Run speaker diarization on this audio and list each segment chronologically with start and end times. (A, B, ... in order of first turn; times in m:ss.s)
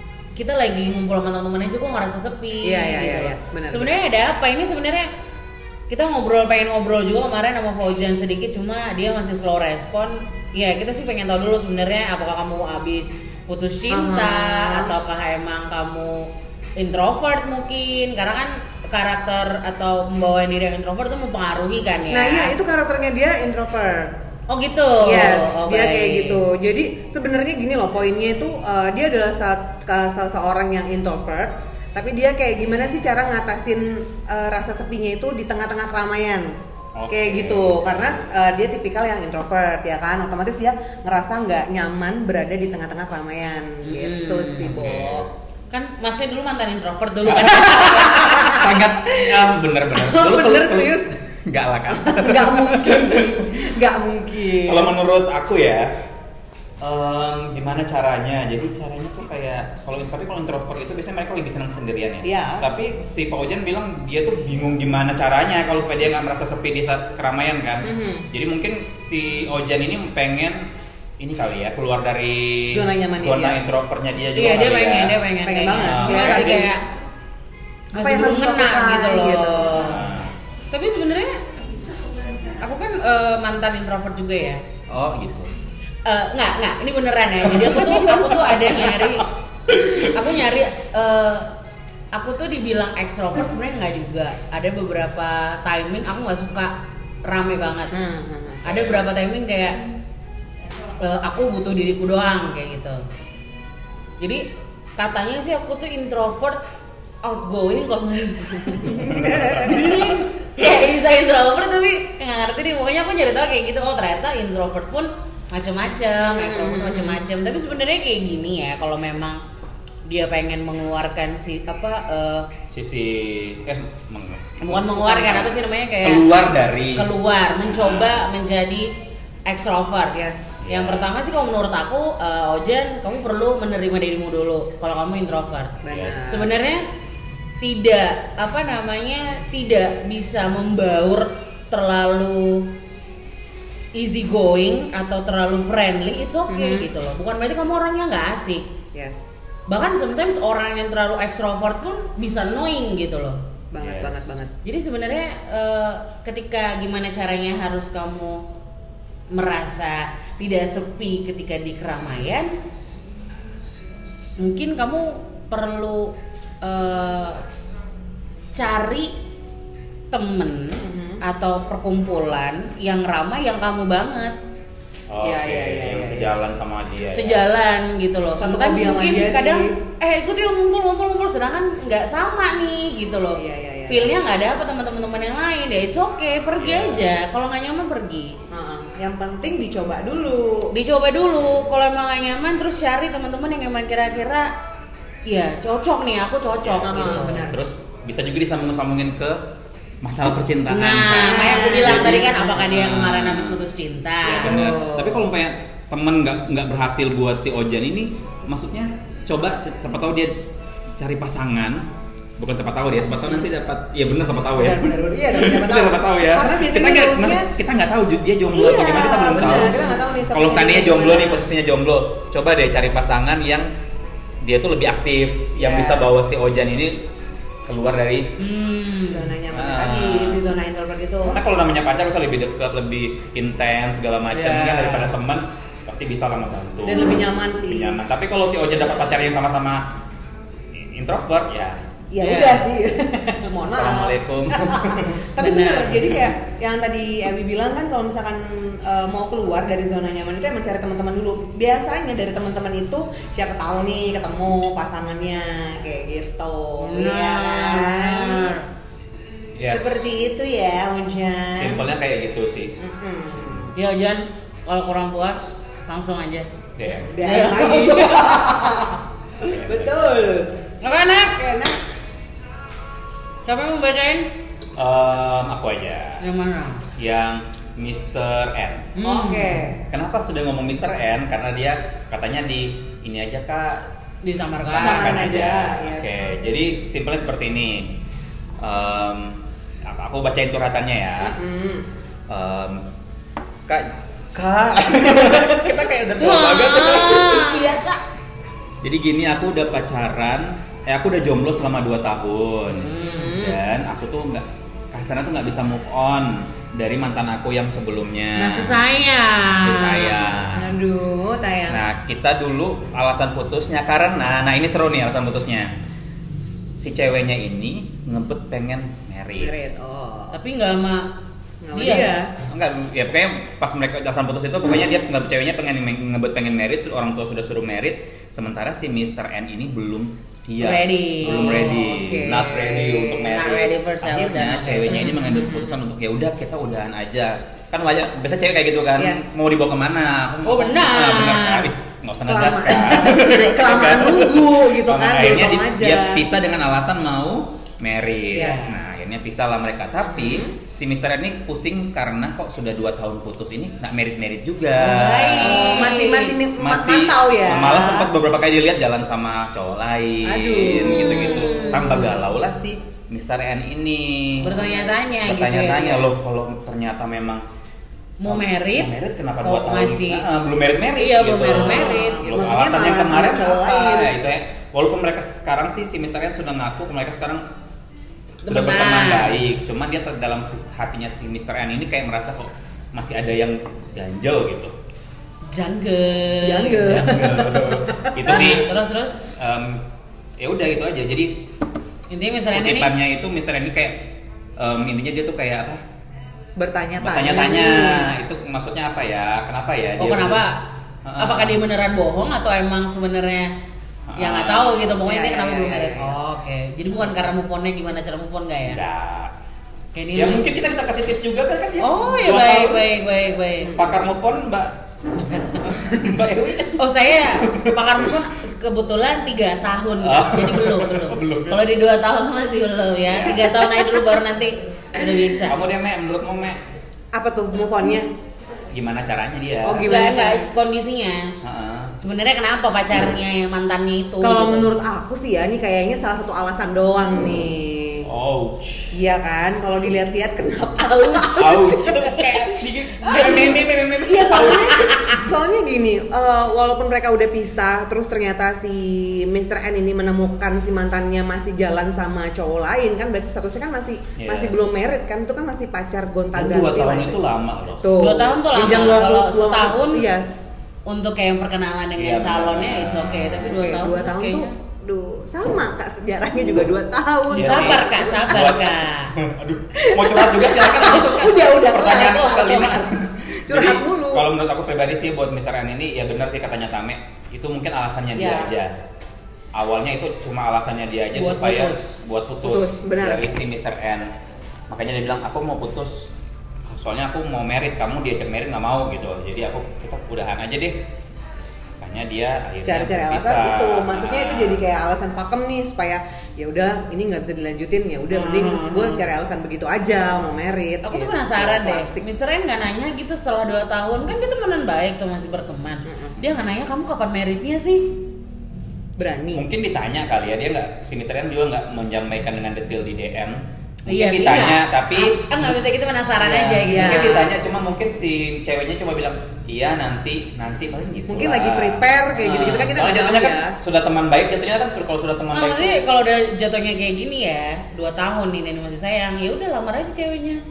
0:00.3-0:05.1 A
0:02.6-0:03.9 B
0:05.9-0:22.5 A
0:13.9-0:14.9 B
0:22.1-0:24.1 B
0:24.5-0:26.4 A
0:25.0-0:36.5 B
0:36.9-0:38.2 C
0:37.1-0:45.3 B
0:43.8-0:44.9 A
0:44.7-0:45.3 C
0:45.7-0:48.6 A
0:47.2-0:53.5 C
0:47.6-0:51.1 B
0:51.9-0:54.9 B
0:54.6-0:55.9 C
0:56.8-1:15.2 C
1:02.2-1:02.6 B
1:07.8-1:08.3 B
1:12.7-1:13.6 B
1:14.3-1:16.8 A
1:15.4-1:16.7 B
1:15.8-1:16.6 C
1:17.9-1:20.0 A
1:17.9-1:20.0 B
1:19.7-1:20.3 C
1:20.7-1:21.4 A
1:22.6-1:24.6 A
1:24.9-1:25.5 C
1:26.0-1:31.5 A
1:27.6-1:29.9 C
1:32.1-1:37.9 A
1:37.9-1:38.6 B
1:38.6-1:39.8 A
1:38.6-1:39.0 C
1:40.9-1:43.0 A
1:44.2-1:44.4 A
1:45.0-1:46.6 A
1:47.2-1:59.4 A
1:48.7-1:50.0 B
1:49.1-1:50.2 C
1:56.3-1:57.2 B
2:00.1-2:02.5 A
2:02.7-2:07.1 C
2:04.6-2:06.4 A
2:06.9-2:08.9 A
2:07.6-2:08.2 C
2:09.4-2:16.8 A
2:10.1-2:10.6 B
2:10.6-2:11.1 C
2:15.8-2:16.5 B
2:15.9-2:16.3 C
2:17.6-2:22.7 A
2:23.9-2:28.7 A
2:26.5-2:26.9 B
2:28.9-2:29.4 B
2:29.7-2:33.4 A
2:33.7-2:34.5 B
2:33.8-2:34.2 C
2:34.6-2:38.5 A
2:39.3-2:42.5 A
2:44.4-2:47.4 A
2:48.5-2:49.1 A
2:50.1-2:54.4 A
2:50.8-2:51.2 B
2:55.1-2:57.4 C
2:55.2-2:56.3 B
2:57.1-3:08.4 A
2:58.4-2:59.8 B
3:03.4-3:04.2 B
3:06.6-3:07.1 C
3:08.5-3:10.7 B
3:10.7-3:14.5 A
3:11.4-3:11.7 C
3:15.3-3:17.4 A
3:16.6-3:19.4 C
3:16.8-3:17.6 B
3:20.0-3:23.6 C
3:20.7-3:24.6 A
3:21.2-3:22.2 B
3:24.2-3:30.4 C
3:24.4-3:25.3 B
3:31.0-3:31.8 C
3:32.4-3:39.8 C
3:34.5-3:37.5 B
3:38.5-3:41.5 B
3:39.5-3:40.0 A
3:40.3-3:43.7 C
3:44.4-3:47.0 C
3:45.6-3:46.1 B
3:47.6-3:48.3 C
3:48.4-3:49.3 A
3:49.1-3:51.4 B
3:49.5-3:50.4 C
3:51.2-3:59.9 C
3:54.3-3:55.1 A
3:56.8-3:58.0 B
4:00.7-4:01.9 C
4:02.1-4:18.6 B
4:02.2-4:02.6 A
4:03.7-4:05.2 C
4:05.4-4:06.1 A
4:16.8-4:18.6 A
4:19.6-4:20.1 C
4:19.7-4:21.8 B
4:21.5-4:22.8 C
4:22.8-4:23.7 B
4:23.4-4:23.7 C
4:23.7-4:26.5 A
4:26.8-4:27.1 C
4:27.1-4:30.5 B
4:27.2-4:28.4 A
4:29.4-4:30.0 C
4:30.8-4:31.7 A
4:33.4-4:34.3 A
4:34.8-4:36.2 C
4:36.2-4:36.8 A
4:37.0-4:38.9 C
4:39.0-4:39.6 A
4:39.0-4:39.8 B
4:39.9-4:43.9 C
4:44.2-4:45.2 A
4:44.6-4:47.9 C
4:44.8-4:46.2 B
4:48.6-4:51.4 C
4:51.3-4:51.9 B
4:52.3-4:52.8 C
4:53.7-4:57.6 C
4:55.2-4:55.6 B
4:56.2-4:57.7 A
4:57.3-4:58.0 B
4:58.8-5:08.8 C
5:02.7-5:03.4 A
5:03.0-5:03.6 B
5:08.4-5:10.3 A
5:09.4-5:10.8 C
5:10.5-5:11.8 B
5:11.7-5:15.7 C
5:16.6-5:19.5 C
5:19.4-5:20.3 B
5:20.3-5:21.1 A
5:21.6-5:22.3 B
5:21.7-5:22.1 A
5:22.5-5:55.9 C
5:30.6-5:31.8 A
5:31.2-5:33.3 B
5:33.2-5:35.1 A
5:34.9-5:35.7 B
5:39.0-5:39.3 B
5:40.4-5:41.7 A
5:42.3-5:46.2 B
5:48.3-5:48.8 B
5:48.4-5:48.8 A
5:50.0-5:50.5 B
5:54.8-5:56.4 A
5:55.4-5:58.1 B
5:56.5-6:04.7 C
6:00.2-6:01.8 B
6:00.7-6:02.2 A
6:04.4-6:06.1 A
6:04.5-6:04.9 B
6:05.2-6:07.4 C
6:08.2-6:10.2 A
6:08.2-6:17.4 C
6:11.0-6:12.3 A
6:11.5-6:14.1 B
6:18.4-6:19.4 A
6:18.4-6:24.7 C
6:25.4-6:27.2 A
6:26.4-6:28.5 B
6:26.9-6:28.7 C
6:28.3-6:29.2 A
6:29.3-6:29.8 C
6:30.4-6:31.5 C
6:32.1-6:32.9 A
6:32.5-6:34.1 C
6:34.6-6:35.8 C
6:36.6-6:38.1 B
6:37.0-6:40.4 C
6:40.0-6:40.6 A
6:41.0-6:41.6 C
6:41.2-6:43.5 A
6:44.1-6:44.9 C
6:44.2-6:48.8 A
6:45.0-6:46.2 B
6:48.7-6:49.3 C
6:49.9-6:50.5 A
6:50.1-6:52.9 C
6:51.8-6:53.8 A
6:53.7-6:54.8 C
6:55.3-6:55.6 A
6:55.6-6:58.1 C
6:56.8-7:05.6 A
7:00.0-7:01.6 C
7:03.1-7:03.9 C
7:05.4-7:06.6 C
7:07.1-7:08.1 B
7:08.7-7:09.9 C
7:09.6-7:10.5 B
7:09.8-7:11.3 A
7:11.4-7:11.9 C
7:12.0-7:14.7 A
7:14.2-7:18.1 B
7:18.0-7:18.9 C
7:18.9-7:22.4 B
7:21.4-7:25.2 C
7:23.0-7:37.2 B
7:34.2-7:34.7 C
7:36.3-7:37.9 C
7:37.8-7:40.4 B
7:38.0-7:40.1 A
7:40.8-7:44.5 A
7:42.0-7:43.6 C
7:43.4-7:48.1 B
7:47.3-7:49.1 A
7:47.3-7:58.8 C
7:49.8-7:52.9 B
7:53.5-7:54.3 B
7:58.2-7:58.5 B
7:59.5-8:04.1 C
8:01.1-8:01.8 A
8:02.4-8:03.3 B
8:04.7-8:06.1 C
8:06.7-8:10.8 C
8:11.8-8:14.6 C
8:12.6-8:22.0 B
8:18.1-8:19.0 A
8:20.8-8:27.9 A
8:25.9-8:26.2 B
8:29.0-8:29.4 B
8:29.3-8:35.5 C
8:33.9-8:37.3 A
8:36.2-8:45.8 C
8:36.7-8:37.3 B
8:41.1-8:43.6 B
8:45.3-8:50.4 A